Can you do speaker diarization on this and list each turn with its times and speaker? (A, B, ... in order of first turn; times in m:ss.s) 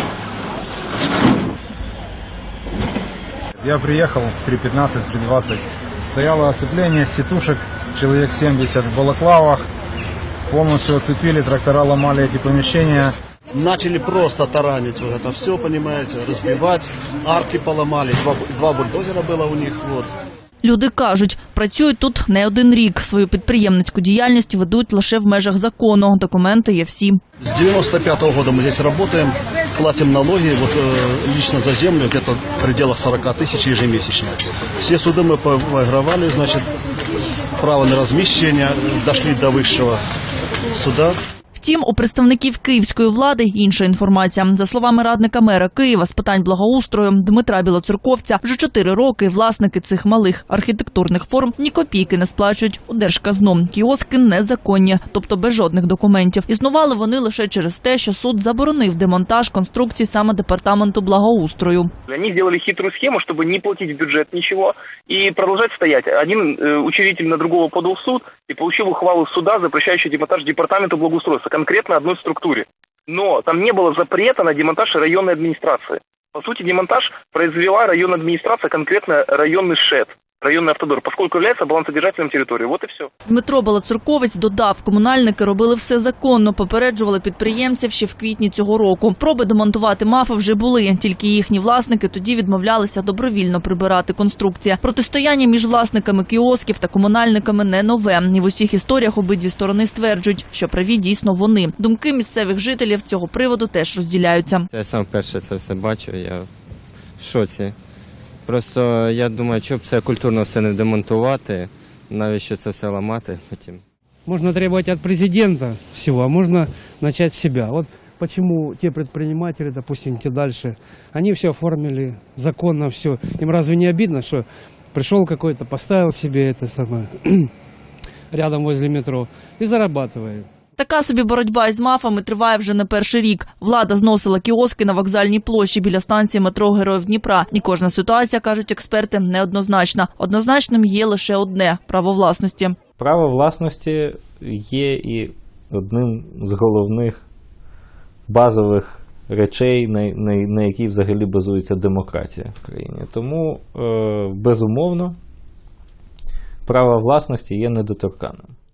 0:03.6-0:05.6 A
0:06.1-0:09.6 A
0:10.5-0:13.1 A
0:13.5-0:20.1 B
0:20.6-0:27.2 C
0:27.5-0:36.7 B
0:37.6-0:40.0 B
0:40.8-0:41.2 B
0:41.5-1:01.9 C
1:02.1-1:23.1 D
1:23.3-1:44.7 C
1:44.7-1:46.5 E
1:47.2-1:47.8 E
1:48.4-1:53.8 E
1:54.3-2:07.5 F
2:08.3-2:10.5 F
2:10.8-2:22.8 C
2:23.0-2:27.2 G
2:28.3-2:35.2 G
2:36.7-2:38.5 G